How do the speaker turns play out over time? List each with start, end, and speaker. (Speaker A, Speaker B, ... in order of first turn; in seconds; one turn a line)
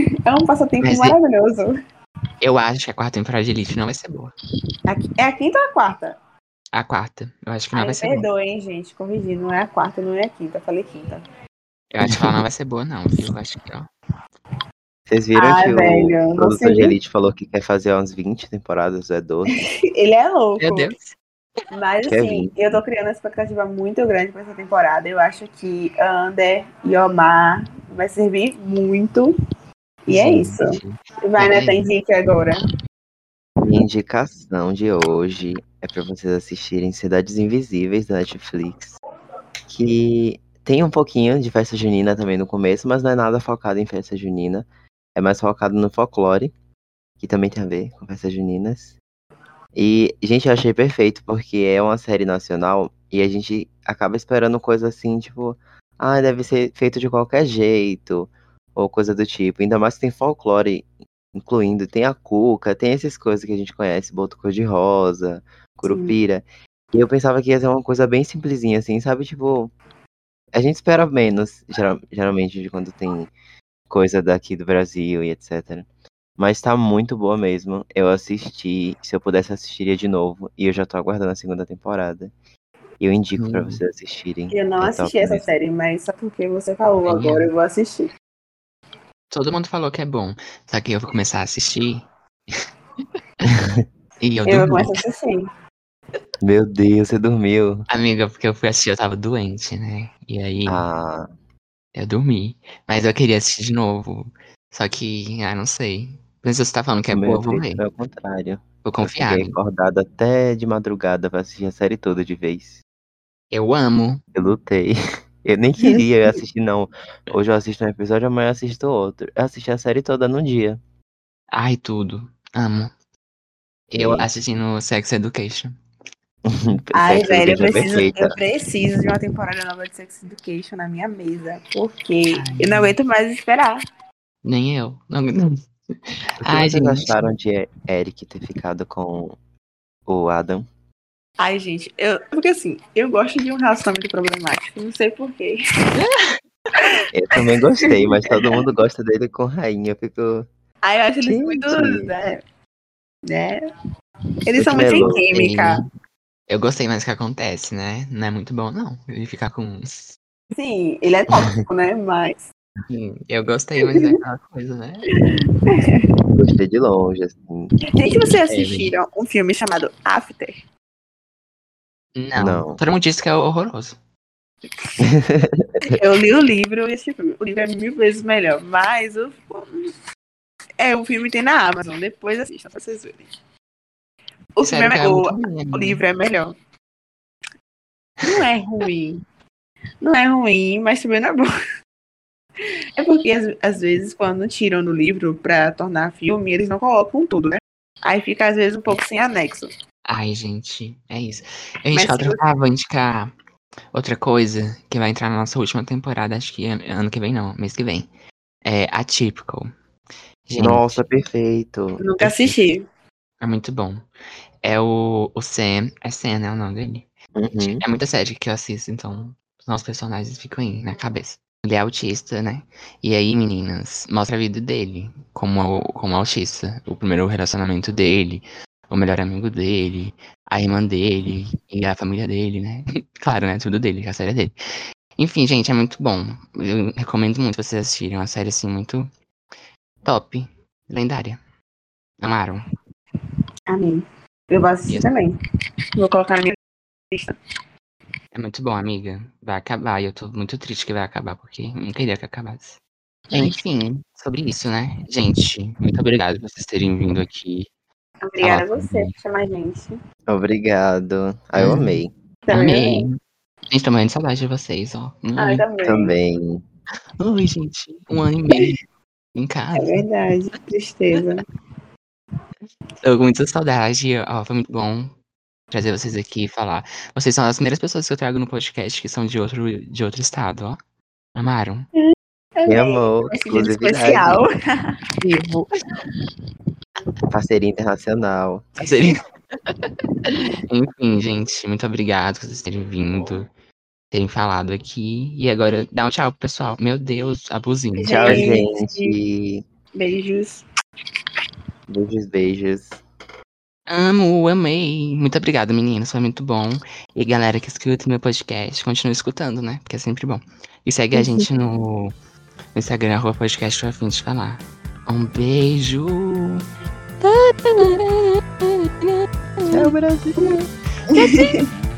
Speaker A: 0.2-1.7
Speaker B: 0.8-1.2
Speaker B: 2.4-4.3
Speaker A: 4.9-6.2
Speaker B: 6.7-8.3
Speaker A: 7.7-11.2
Speaker B: 11.9-13.9
Speaker C: 12.0-12.3
Speaker C: 15.1-19.6
Speaker A: 15.3-17.0
Speaker A: 19.9-20.9
Speaker B: 20.6-21.1
Speaker A: 21.7-29.3
Speaker C: 22.1-22.8
Speaker A: 30.1-32.6
Speaker B: 30.1-31.9
Speaker C: 33.6-39.0
Speaker C: 39.7-46.5
Speaker C: 47.2-48.9
Speaker C: 49.7-69.7
Speaker A: 65.8-66.2
Speaker C: 70.5-73.3
Speaker C: 73.9-75.9
Speaker C: 76.4-82.3
Speaker C: 83.0-85.5
Speaker B: 83.4-83.8
Speaker A: 84.5-88.1
Speaker B: 87.0-87.5
Speaker B: 89.3-92.6
Speaker C: 93.4-93.8
Speaker B: 94.2-94.9
Speaker A: 94.5-95.4
Speaker C: 96.4-97.8
Speaker B: 97.9-100.8
Speaker C: 100.7-101.3
Speaker B: 101.9-107.8
Speaker C: 107.1-112.8
Speaker B: 108.8-109.6
Speaker B: 113.5-114.2
Speaker C: 114.3-120.8
Speaker B: 121.5-122.9
Speaker B: 123.9-125.8
Speaker C: 124.0-124.3
Speaker C: 126.5-128.3
Speaker A: 126.9-133.8
Speaker B: 132.3-132.9
Speaker B: 134.4-137.2
Speaker C: 136.4-139.3
Speaker C: 140.1-140.7
Speaker A: 141.4-145.6
Speaker B: 146.0-146.3
Speaker C: 147.1-150.5
Speaker A: 148.0-148.5
Speaker A: 150.8-152.4
Speaker C: 151.2-152.1
Speaker A: 153.2-153.6
Speaker A: 154.5-155.8
Speaker C: 154.6-155.3
Speaker B: 155.3-155.9
Speaker B: 156.5-160.2
Speaker A: 160.5-162.5
Speaker B: 162.9-165.1
Speaker A: 163.8-164.2
Speaker A: 165.3-166.0
Speaker C: 166.3-167.7
Speaker A: 167.9-170.5
Speaker B: 168.5-168.9
Speaker B: 172.2-174.0
Speaker C: 172.4-172.8
Speaker C: 175.0-175.9
Speaker A: 175.9-179.7
Speaker A: 180.8-183.3
Speaker A: 184.6-186.5
Speaker B: 184.6-186.0
Speaker A: 188.2-189.2
Speaker A: 190.0-191.5
Speaker A: 193.0-199.7
Speaker B: 200.1-203.3
Speaker A: 201.9-202.4
Speaker B: 203.9-208.1
Speaker B: 208.6-209.7
Speaker B: 210.5-211.0
Speaker C: 210.6-212.2
Speaker A: 212.0-212.8
Speaker B: 212.2-212.5
Speaker B: 213.4-214.0
Speaker B: 214.6-217.1
Speaker C: 217.3-217.8
Speaker B: 217.6-239.1
Speaker B: 240.0-241.4
Speaker B: 242.2-242.6
Speaker A: 243.7-245.3
Speaker A: 246.0-246.6
Speaker B: 248.3-252.8
Speaker B: 253.3-257.7
Speaker A: 258.2-259.9
Speaker B: 258.4-259.1
Speaker C: 260.3-262.1
Speaker B: 261.6-263.2
Speaker A: 262.5-263.1
Speaker B: 263.7-265.6
Speaker A: 265.4-266.1
Speaker C: 265.8-266.6
Speaker B: 267.2-268.8
Speaker B: 269.3-270.0
Speaker A: 269.7-271.4
Speaker B: 273.0-275.1
Speaker B: 275.7-280.8
Speaker B: 281.4-281.9
Speaker A: 282.0-284.5
Speaker C: 282.6-284.4
Speaker B: 285.2-285.6
Speaker C: 287.3-288.7
Speaker B: 288.8-293.5
Speaker B: 294.1-298.5
Speaker A: 298.0-299.1
Speaker C: 298.1-299.6
Speaker A: 299.9-300.6
Speaker C: 301.9-303.0
Speaker B: 303.9-312.1
Speaker A: 311.1-311.4
Speaker B: 312.7-316.6
Speaker B: 317.2-319.9
Speaker C: 319.7-320.6
Speaker A: 321.1-321.7
Speaker B: 321.1-321.6